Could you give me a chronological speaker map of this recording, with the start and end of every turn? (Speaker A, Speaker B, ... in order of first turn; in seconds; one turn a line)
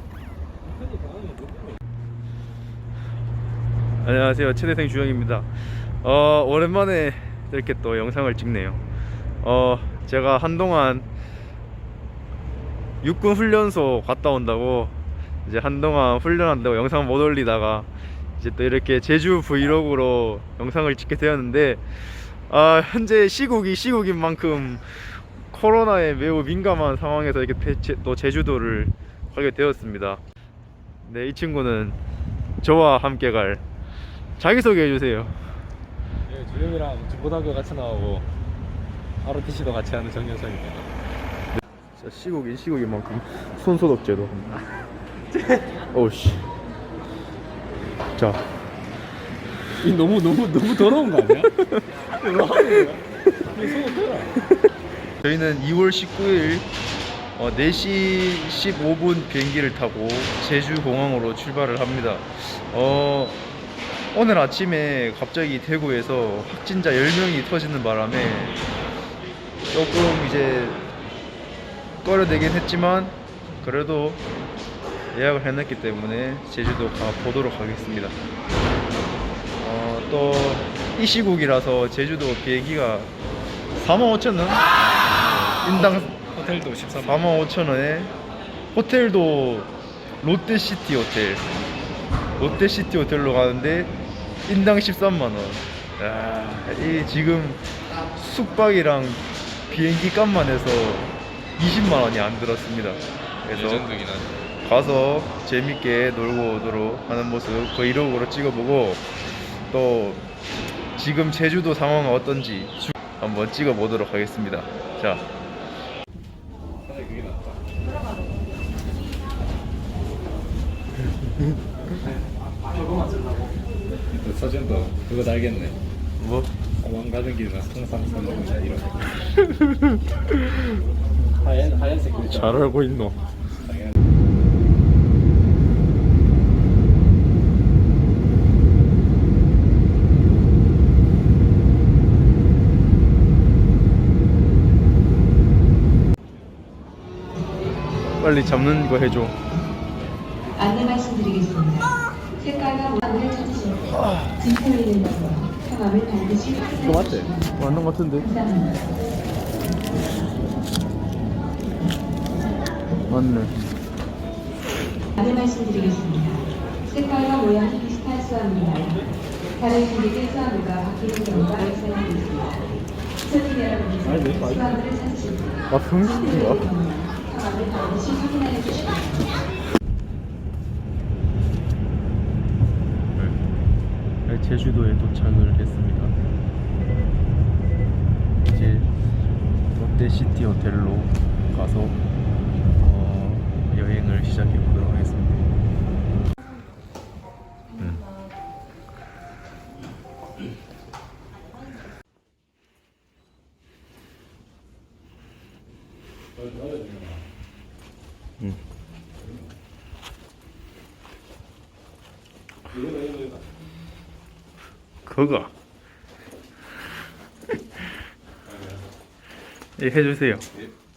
Speaker A: 0.6-1.8
Speaker B: 4.0-8.8
Speaker B: 9.4-11.1
Speaker B: 13.0-30.2
Speaker B: 31.0-32.0
Speaker B: 32.6-33.6
Speaker B: 34.4-35.6
Speaker A: 36.3-38.3
Speaker A: 39.2-40.9
Speaker B: 42.0-44.6
Speaker B: 45.9-46.4
Speaker B: 48.2-48.4
Speaker A: 49.8-51.5
Speaker B: 51.5-51.9
Speaker A: 52.2-54.4
Speaker B: 55.2-56.7
Speaker B: 57.4-63.4
Speaker B: 64.1-68.6
Speaker B: 69.7-70.8
Speaker B: 72.0-74.2
Speaker B: 75.1-78.2
Speaker B: 79.6-83.1
Speaker B: 83.8-84.6
Speaker A: 85.0-87.4
Speaker B: 85.6-86.1
Speaker B: 87.0-88.1
Speaker B: 88.7-91.5
Speaker B: 92.4-103.9
Speaker A: 103.5-104.5
Speaker B: 104.6-109.1
Speaker B: 109.7-110.2
Speaker B: 111.0-115.3
Speaker A: 116.8-117.6
Speaker A: 124.1-125.8
Speaker B: 126.2-126.5
Speaker A: 126.8-129.2
Speaker A: 131.3-132.6
Speaker B: 132.3-133.2
Speaker A: 133.6-133.9
Speaker B: 148.2-149.4
Speaker C: 150.6-151.9
Speaker C: 152.5-153.7
Speaker B: 153.9-154.6
Speaker C: 154.6-156.7
Speaker A: 156.8-157.3
Speaker B: 157.4-158.4
Speaker B: 163.1-163.6
Speaker C: 165.2-166.4
Speaker C: 166.9-168.9
Speaker C: 169.6-172.5
Speaker C: 173.4-173.8
Speaker A: 174.0-175.0
Speaker B: 175.7-176.9
Speaker C: 177.3-178.9
Speaker B: 184.3-186.2
Speaker B: 188.5-188.9
Speaker B: 189.7-192.0
Speaker B: 192.8-195.5
Speaker B: 197.8-198.1
Speaker A: 206.3-207.2
Speaker A: 209.2-209.5
Speaker A: 212.7-213.5
Speaker B: 215.1-215.5
Speaker A: 218.5-218.9
Speaker B: 219.8-220.4